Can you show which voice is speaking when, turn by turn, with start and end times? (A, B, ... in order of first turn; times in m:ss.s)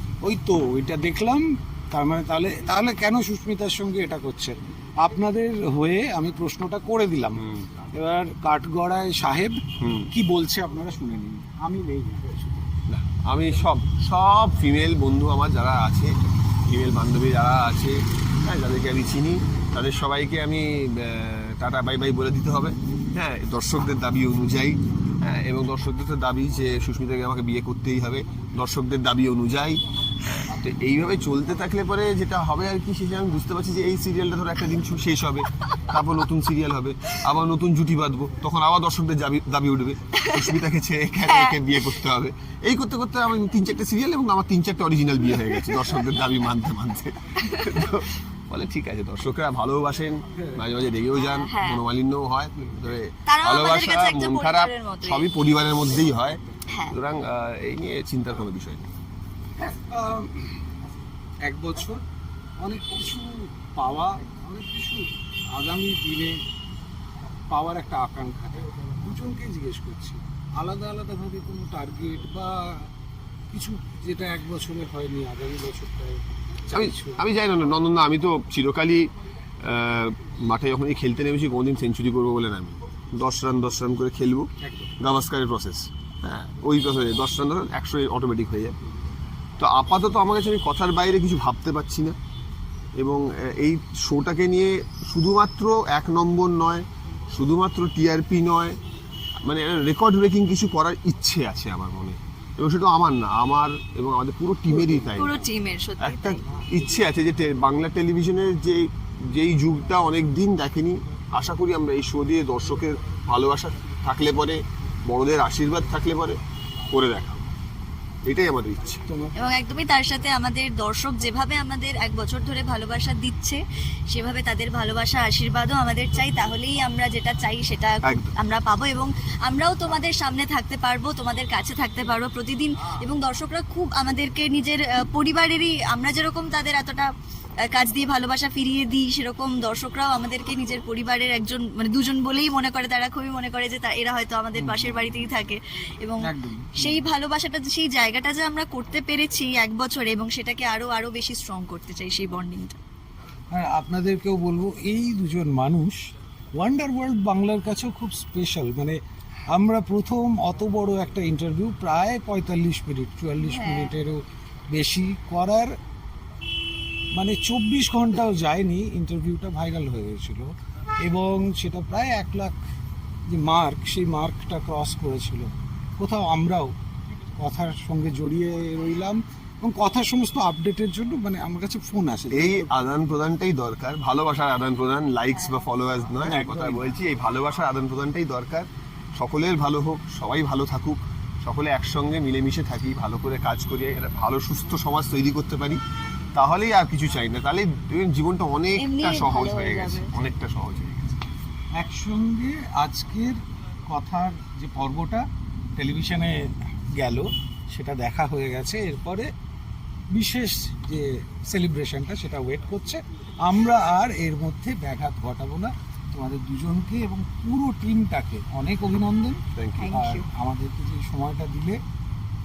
0:00.2-0:12.7 A
0:07.4-0:07.7 B
0:09.8-0:10.1 B
0:12.9-0:16.1 B
0:16.7-0:58.9 B
0:40.2-0:40.6 C
0:41.2-0:41.8 C
0:45.6-0:45.8 C
0:47.4-0:47.7 C
0:50.4-0:50.6 A
0:51.2-0:51.8 C
0:53.3-0:55.3 C
0:56.7-0:57.0 C
0:59.6-1:00.7 A
1:01.5-1:02.0 A
1:02.6-1:06.4 A
1:07.5-1:12.9 A
1:13.5-1:17.3 A
1:16.7-1:24.5 B
1:24.6-1:25.0 A
1:25.0-1:28.8 B
1:29.6-1:32.2 B
1:33.0-1:38.8 B
1:39.4-1:45.4 B
1:44.8-1:45.4 A
1:45.2-1:46.4 C
1:46.0-1:56.4 B
1:56.9-1:57.5 B
1:58.2-1:59.0 B
1:59.1-1:59.6 A
1:59.4-2:17.1 C
2:08.0-2:08.3 B
2:17.7-2:32.8 C
2:24.6-2:25.1 A
2:26.2-2:27.1 A
2:33.5-2:39.0 A
2:39.5-2:45.7 A
2:43.4-2:44.0 C
2:47.1-2:50.5 A
2:51.0-2:52.6 A
2:53.3-2:56.7 A
2:57.4-3:02.7 A
3:02.3-3:15.8 B
3:06.2-3:06.9 A
3:16.4-3:21.3 B
3:18.8-3:20.1 C
3:21.8-3:25.2 A
3:25.8-3:29.3 A
3:30.1-3:41.8 A
3:39.5-3:39.9 B
3:39.8-3:40.3 C